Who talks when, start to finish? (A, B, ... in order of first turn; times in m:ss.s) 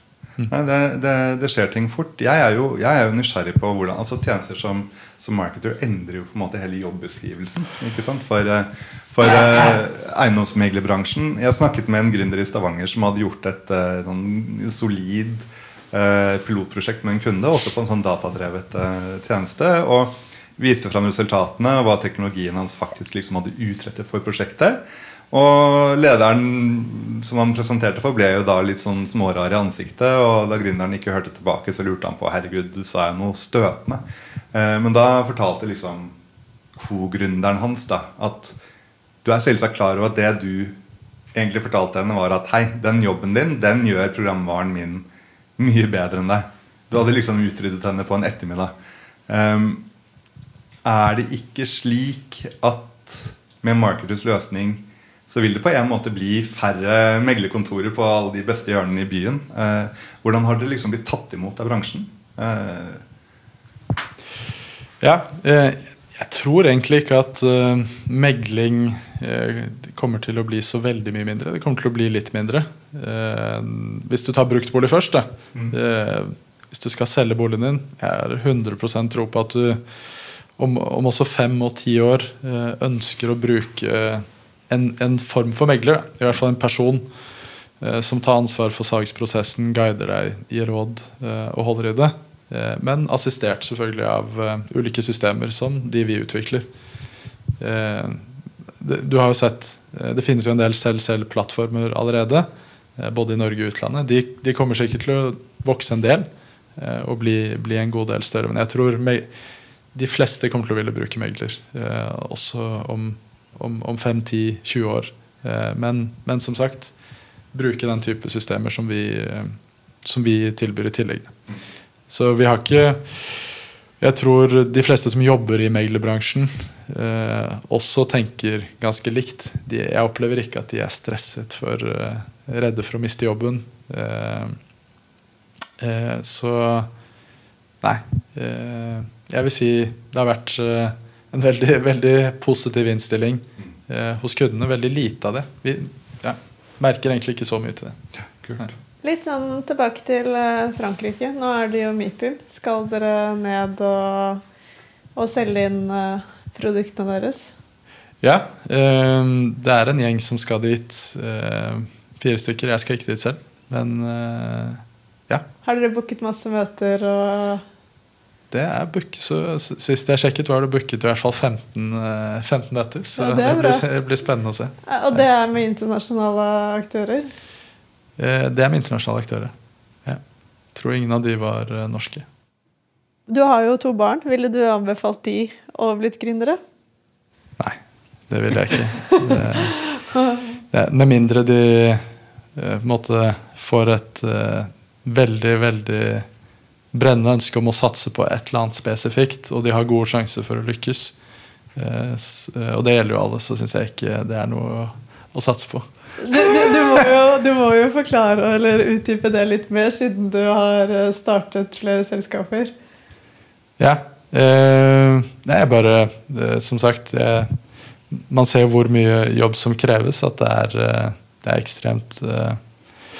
0:00.5-0:36.1 A
0:36.8-0:38.6 A
0:39.2-0:40.8 A
0:41.3-0:48.7 A
0:49.3-0:49.9 A
0:50.8-1:03.0 A
1:05.0-1:19.8 B
1:20.6-1:27.1 B
1:27.8-1:36.7 B
1:37.6-1:38.3 B
1:38.8-1:49.3 B
1:49.9-1:56.9 B
1:57.5-2:01.4 B
2:02.1-2:14.6 B
2:15.8-2:16.9 B
2:17.8-2:28.0 B
2:28.4-2:28.7 A
2:29.0-2:34.4 C
2:35.2-2:37.5 C
2:38.2-2:45.4 B
2:45.6-2:47.6 C
2:48.5-2:55.2 B
2:53.2-2:53.9 C
2:54.9-2:57.3 C
2:58.2-2:59.5 B
3:00.7-3:02.3 B
3:03.3-3:06.6 C
3:08.3-3:09.8 B
3:10.1-3:10.4 C
3:10.7-3:16.3 B
3:16.9-3:21.1 B
3:21.8-3:27.0 B
3:26.2-3:32.7 C
3:33.8-3:37.5 B
3:38.1-3:42.6 B